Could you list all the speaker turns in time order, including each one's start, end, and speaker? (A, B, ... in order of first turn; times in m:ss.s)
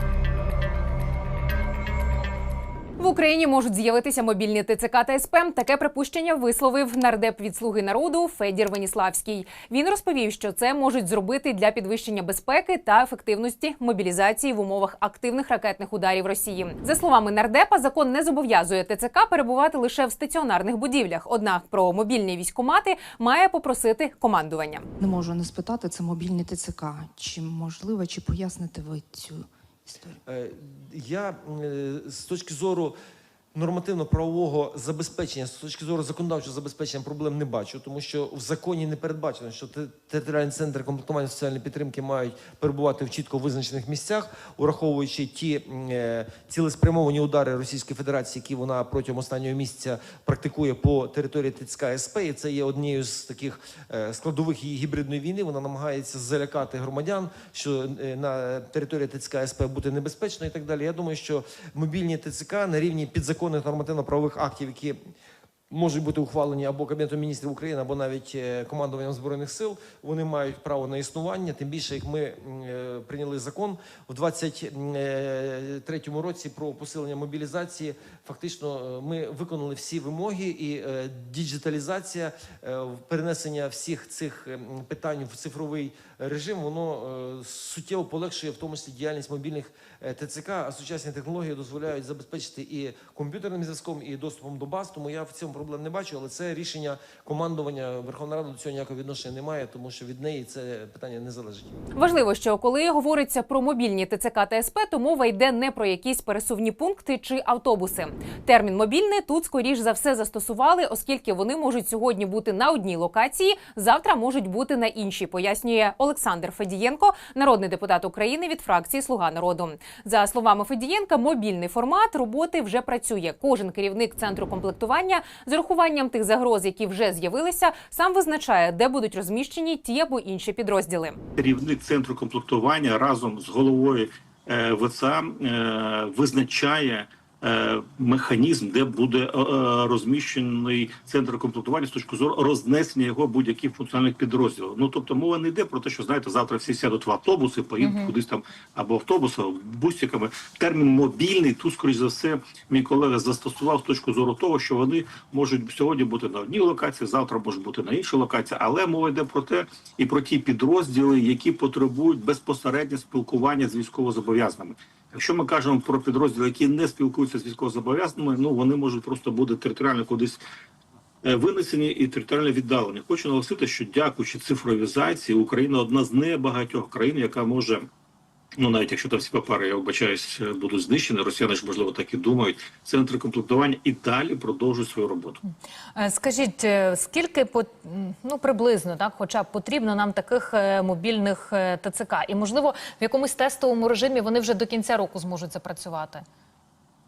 0:03.0-0:24.9 A
0:25.0-0:30.1 B
0:30.3-0:32.9 C
0:33.6-1:05.0 C
1:05.7-1:41.7 C
1:42.0-2:11.2 A
2:11.4-2:50.4 D
2:27.8-2:28.1 E
2:51.2-2:57.9 D
2:58.6-3:05.4 D
3:05.4-3:16.2 E